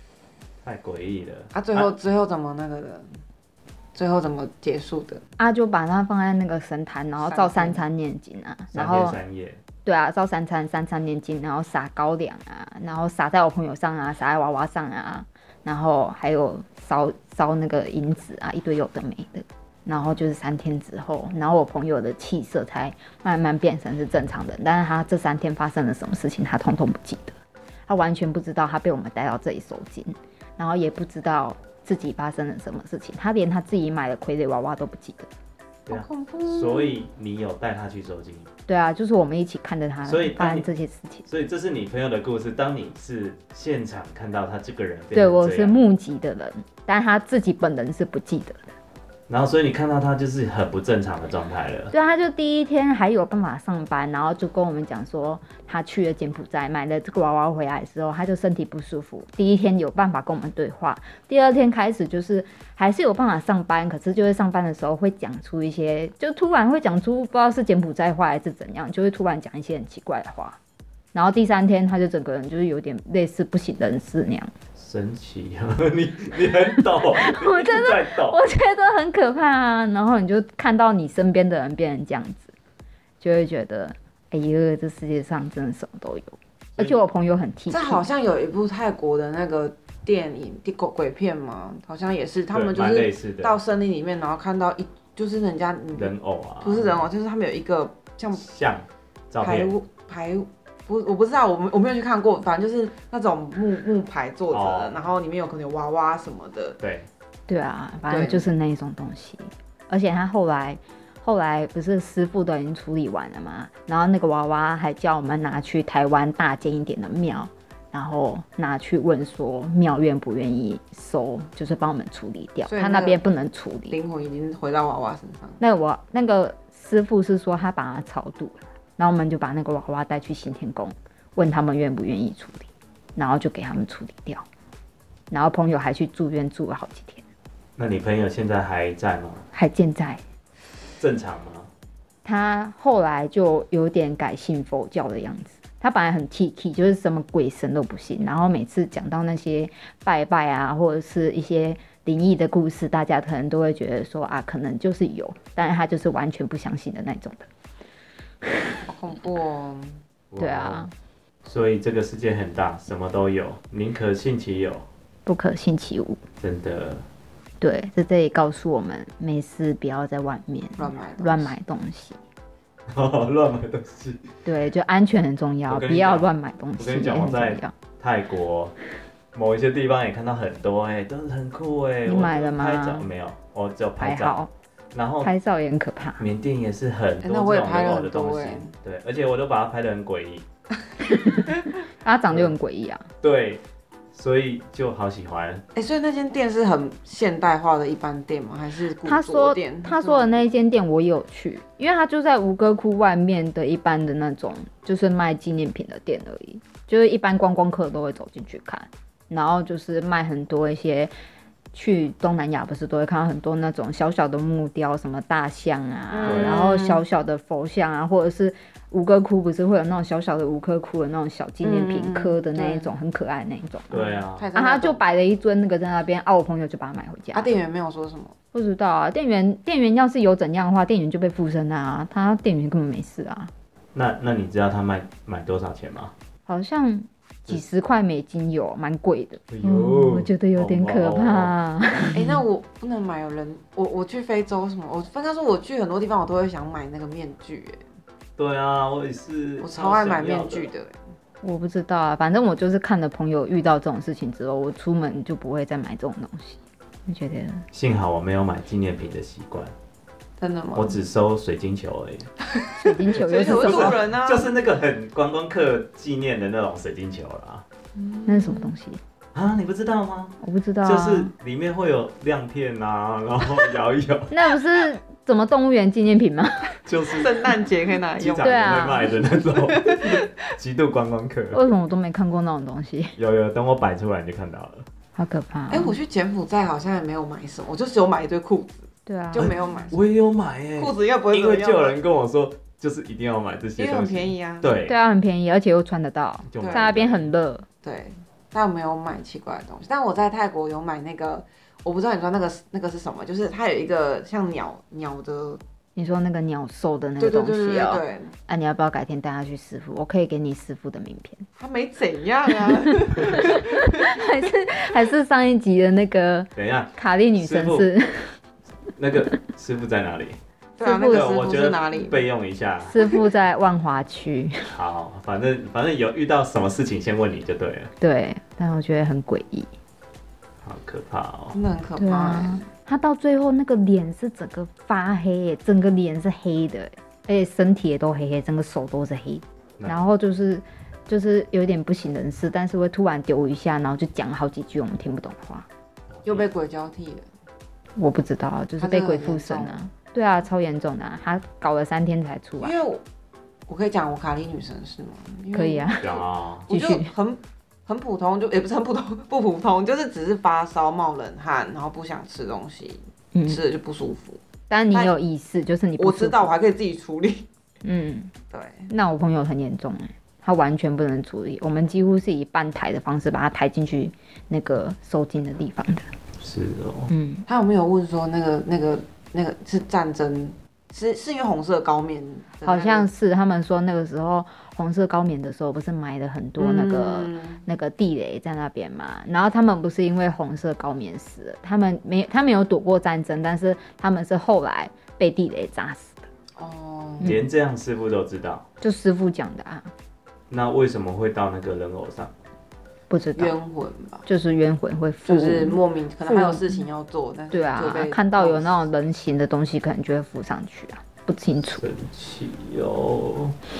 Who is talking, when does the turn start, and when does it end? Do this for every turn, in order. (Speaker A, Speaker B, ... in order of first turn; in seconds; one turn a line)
Speaker A: 0.6-1.9
Speaker B: 1.5-3.1
Speaker B: 3.9-5.2
Speaker C: 5.4-9.2
Speaker B: 7.2-7.8
Speaker A: 8.7-9.6
Speaker C: 9.8-27.3
Speaker C: 27.9-35.3
Speaker A: 35.9-38.5
Speaker B: 35.9-37.0
Speaker C: 38.7-41.2
Speaker A: 40.0-40.7
Speaker A: 41.2-45.8
Speaker C: 45.1-48.7
Speaker A: 49.3-51.9
Speaker C: 51.9-70.6
Speaker C: 71.1-74.5
Speaker A: 74.8-78.4
Speaker C: 76.8-82.5
Speaker C: 83.2-88.0
Speaker A: 86.8-87.0
Speaker B: 87.7-98.4
Speaker A: 92.5-93.6
Speaker A: 96.0-97.0
Speaker A: 98.3-99.7
Speaker B: 99.4-106.8
Speaker A: 104.5-105.0
Speaker A: 106.8-107.1
Speaker C: 107.5-124.0
Speaker B: 108.1-108.5
Speaker B: 122.7-123.2
Speaker B: 123.9-125.6
Speaker C: 125.6-134.4
Speaker C: 135.3-137.2
Speaker A: 137.8-139.4
Speaker C: 139.5-140.2
Speaker A: 141.0-141.7
Speaker C: 142.2-157.5
Speaker B: 158.9-160.0
Speaker A: 160.3-160.9
Speaker C: 160.4-160.9
Speaker A: 161.4-164.9
Speaker C: 165.2-166.2
Speaker A: 166.4-167.0
Speaker C: 167.6-172.2
Speaker B: 170.8-171.6
Speaker A: 172.9-174.3
Speaker C: 174.4-177.7
Speaker A: 175.7-178.7
Speaker A: 179.3-184.4
Speaker C: 182.0-183.1
Speaker C: 184.0-184.5
Speaker A: 184.9-185.3
Speaker C: 185.2-186.2
Speaker A: 186.2-190.4
Speaker B: 187.2-188.7
Speaker C: 191.1-193.1
Speaker A: 192.3-192.5
Speaker A: 193.2-195.6
Speaker B: 195.7-200.5
Speaker C: 199.0-211.1
Speaker C: 211.7-227.6
Speaker B: 216.1-217.0
Speaker A: 216.2-216.6
Speaker B: 221.6-222.9
Speaker A: 223.9-224.5
Speaker B: 224.3-225.0
Speaker B: 227.3-228.4
Speaker C: 228.5-233.5
Speaker A: 233.9-236.1
Speaker C: 236.5-242.4
Speaker A: 239.5-241.6
Speaker B: 242.1-247.8
Speaker A: 248.4-250.7
Speaker B: 249.6-251.0
Speaker C: 251.4-257.6
Speaker A: 257.7-259.7
Speaker B: 260.4-261.0
Speaker A: 260.7-262.3
Speaker B: 262.5-264.5
Speaker C: 262.7-264.1
Speaker A: 263.5-267.6
Speaker B: 267.9-268.7
Speaker C: 268.3-269.0
Speaker A: 269.3-274.4
Speaker C: 270.4-271.3
Speaker C: 274.3-276.8
Speaker A: 276.8-277.3
Speaker B: 277.2-280.2
Speaker A: 278.2-281.6
Speaker C: 278.4-279.1
Speaker C: 281.5-283.1
Speaker A: 283.1-284.9
Speaker C: 285.1-286.0
Speaker B: 285.7-290.0
Speaker C: 289.1-289.5
Speaker A: 289.4-295.0
Speaker B: 290.8-292.0
Speaker B: 293.8-294.7
Speaker C: 294.9-297.7
Speaker A: 296.4-297.3
Speaker B: 296.6-297.1
Speaker B: 297.8-305.6
Speaker C: 305.9-311.5
Speaker B: 307.2-308.3
Speaker B: 311.6-314.2
Speaker C: 312.7-318.4
Speaker A: 316.6-317.9
Speaker A: 319.0-320.4
Speaker B: 320.8-322.2
Speaker C: 320.8-321.7
Speaker A: 321.1-322.9
Speaker C: 322.8-324.5
Speaker A: 324.7-327.9
Speaker C: 328.0-329.7
Speaker A: 330.6-331.6
Speaker B: 331.5-332.7
Speaker C: 332.0-345.7
Speaker A: 346.1-346.5
Speaker B: 346.2-347.3
Speaker C: 348.0-352.8
Speaker B: 348.8-349.8
Speaker B: 352.6-353.0
Speaker B: 353.7-364.4
Speaker C: 355.5-357.1
Speaker A: 356.0-356.7
Speaker C: 363.3-363.6
Speaker C: 364.7-366.5
Speaker B: 366.0-367.5
Speaker C: 367.8-368.3
Speaker B: 368.5-368.9
Speaker C: 368.9-376.1
Speaker A: 376.4-377.1
Speaker C: 377.1-377.4
Speaker B: 377.5-383.1
Speaker C: 382.6-396.2
Speaker B: 386.6-387.6
Speaker B: 396.5-397.3
Speaker C: 397.2-397.5
Speaker A: 397.2-398.6
Speaker C: 398.8-399.9
Speaker A: 400.5-402.3
Speaker C: 403.1-403.5
Speaker B: 403.3-404.2
Speaker C: 404.2-406.8
Speaker B: 405.2-408.8
Speaker C: 407.5-411.8
Speaker A: 411.8-413.5